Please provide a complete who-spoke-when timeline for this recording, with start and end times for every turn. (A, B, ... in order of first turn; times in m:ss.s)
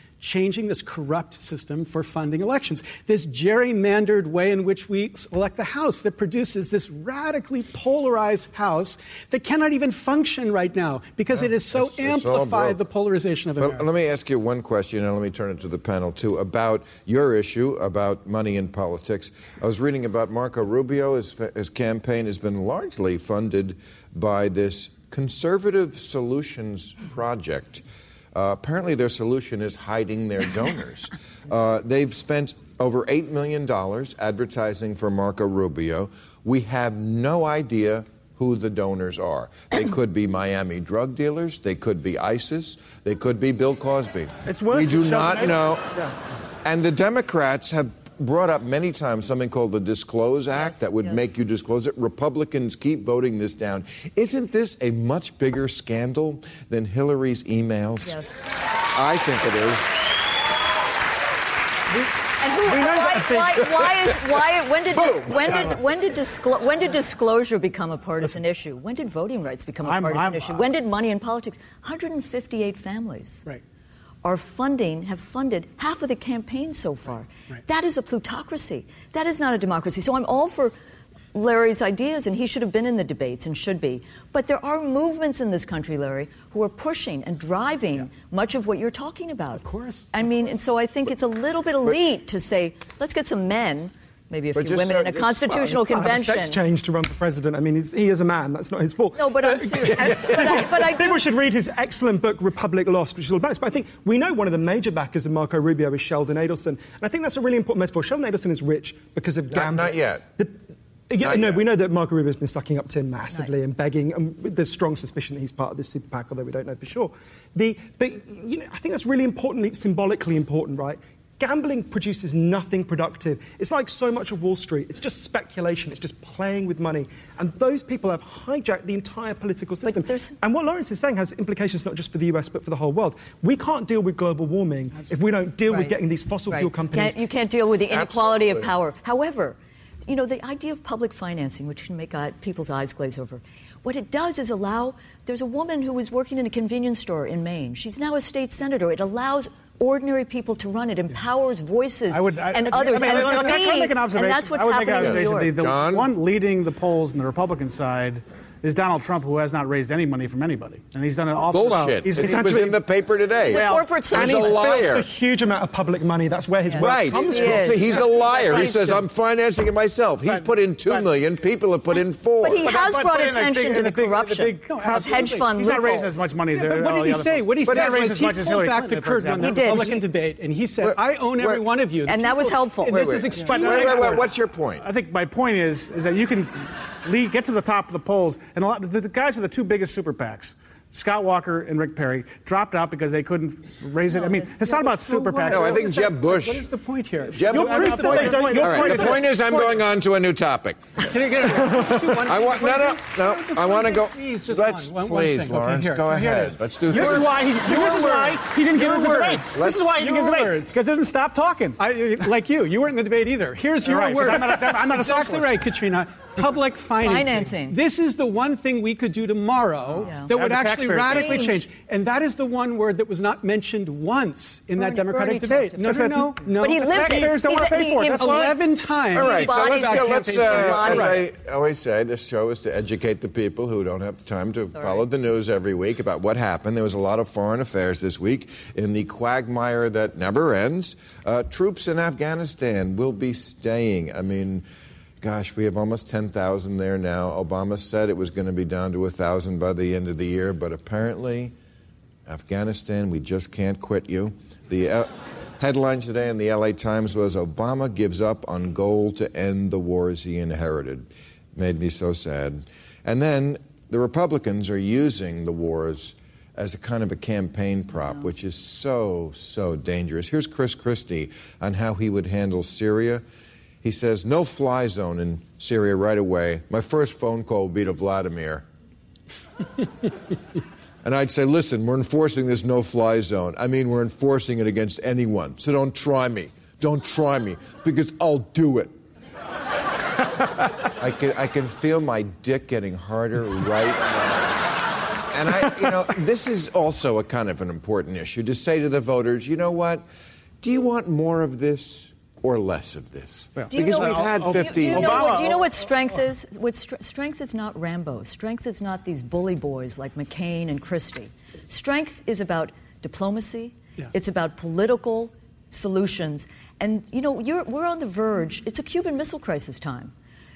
0:00.2-0:13.8 A
0:11.3-0:12.9 B
0:13.6-0:45.9 B
0:44.4-0:46.1 C
0:46.6-0:58.2 B
0:50.5-0:51.2 D
0:58.0-0:58.4 D
0:58.9-1:00.2 B
1:02.4-1:13.4 D
1:02.6-1:03.8 C
1:04.9-1:05.8 B
1:09.8-1:10.6 E
1:14.2-1:20.7 D
1:21.3-1:36.6 D
1:29.5-1:30.1 A
1:34.5-1:35.8 B
1:35.6-2:17.2 C
1:39.1-1:41.2 D
1:49.5-1:50.2 B
1:51.2-1:51.6 B
2:09.8-2:10.4 D
2:15.7-2:16.0 D
2:16.5-2:35.6 D
2:17.9-2:18.7 B
2:32.1-2:42.7 E
2:33.0-2:33.4 C
2:35.0-2:36.1 B
2:41.5-2:45.1 B
2:42.2-2:42.7 C
2:43.5-2:44.8 D
2:43.5-2:43.9 E
2:44.1-2:48.0 C
2:46.7-2:48.7 D
2:46.8-2:52.7 B
2:47.6-2:48.9 E
2:50.3-2:51.0 E
2:52.4-2:56.3 D
2:52.6-3:00.0 E
2:54.7-2:55.3 A
2:56.5-3:04.3 A
2:57.7-2:57.9 B
2:59.4-3:00.0 D
3:00.8-3:01.6 B
3:02.0-3:03.0 D
3:02.9-3:04.8 B
3:03.4-3:04.2 E
3:04.8-3:15.9 E
3:14.1-3:18.8 A
3:15.5-3:16.7 B
3:17.3-3:28.1 B
3:17.4-3:19.7 E
3:17.5-3:19.3 C
3:21.0-3:30.8 A
3:26.9-3:31.8 E
3:29.5-3:29.9 B
3:31.8-3:51.2 A
3:33.8-3:35.6 E
3:37.0-3:37.8 D
3:40.0-3:41.6 E
3:40.0-3:40.3 D
3:41.0-3:41.6 D
3:44.8-3:46.1 D
3:45.8-3:46.2 C
3:46.6-3:48.4 D
3:46.8-3:48.6 E
3:49.1-3:51.2 D
3:49.1-4:04.6 B
3:54.7-3:55.0 D
4:05.2-4:11.5 B
4:12.3-4:33.2 B
4:28.0-4:28.3 D
4:33.8-4:38.6 B
4:41.0-4:48.9 B
4:51.0-4:54.6 B
4:55.3-5:00.0 B
5:00.6-5:05.4 B
5:03.6-5:05.8 E
5:03.7-5:20.1 D